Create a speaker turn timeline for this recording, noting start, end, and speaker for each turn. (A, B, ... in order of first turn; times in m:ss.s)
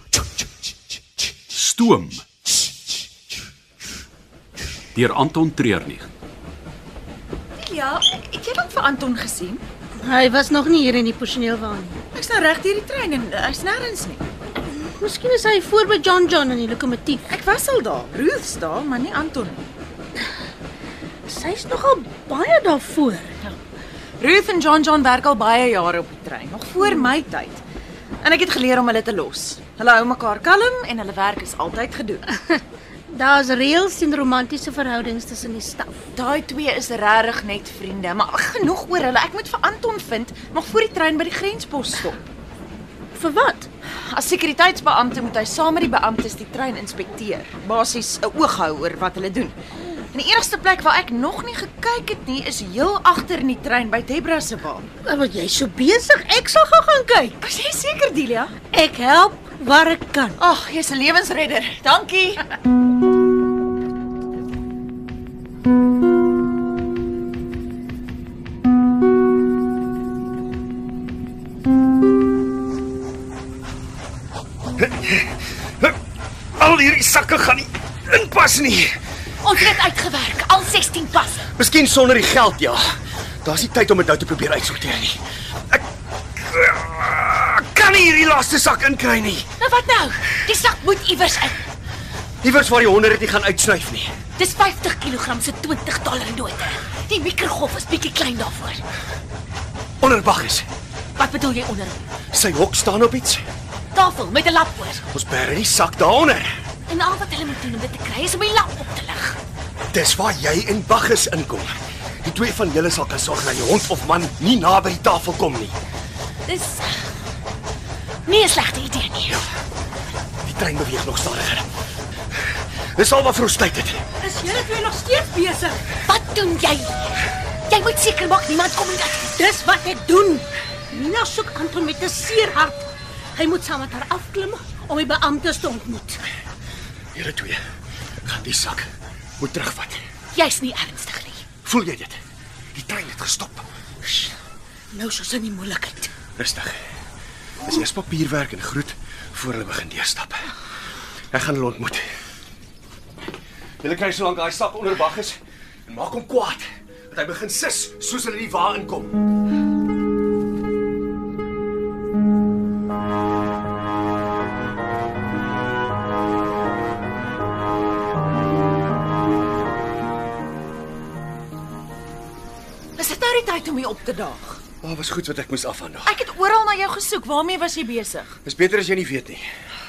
0:01.5-0:02.2 A
0:04.9-0:06.1 A
0:07.6-0:09.6 B
0:10.0-0:12.0 C
0:12.1-0:14.3 B
0:14.8-0:17.2 C
0:17.2-0:19.7 B
0:21.3-0:23.3 C
0:24.2-0:27.6 B
0:28.2-0:32.2 B
0:33.1-0:36.0 C
0:36.1-0:42.2 B
0:43.2-0:43.7 C
0:44.1-0:49.6 B
0:50.1-0:54.9 B
0:55.1-0:57.3 C
0:57.4-0:58.6 B
0:58.7-1:00.3 C
1:00.4-1:02.4 B
1:14.8-1:16.0 D
1:16.6-1:19.0 D
1:19.4-1:21.5 E
1:21.6-1:25.8 D
1:26.4-1:29.5 D
1:29.6-1:31.6 E
1:32.4-1:34.1 D
1:34.4-1:38.8 E
1:40.0-1:40.7 D
1:41.2-1:42.1 E
1:42.3-1:43.4 D
1:44.0-1:45.0 E
1:45.1-1:46.5 D
1:46.9-1:49.4 E
1:49.9-1:55.8 D
1:56.5-1:57.1 E
1:58.3-1:59.4 E
2:00.4-2:01.7 D
2:03.0-2:04.0 D
2:04.2-2:05.8 C
2:06.1-2:09.5 E
2:09.4-2:16.2 C
2:17.1-2:17.6 D
2:18.2-2:18.9 D
2:19.4-2:20.0 D
2:20.3-2:21.4 E
2:21.6-2:22.2 D
2:22.7-2:23.7 D
2:24.9-2:26.1 E
2:26.4-2:26.8 D
2:27.6-2:30.5 D
2:31.3-2:32.0 D
2:33.8-2:39.2 D
2:53.0-2:54.6 B
2:54.8-2:56.2 D
2:56.1-2:58.4 B
2:58.4-2:59.5 D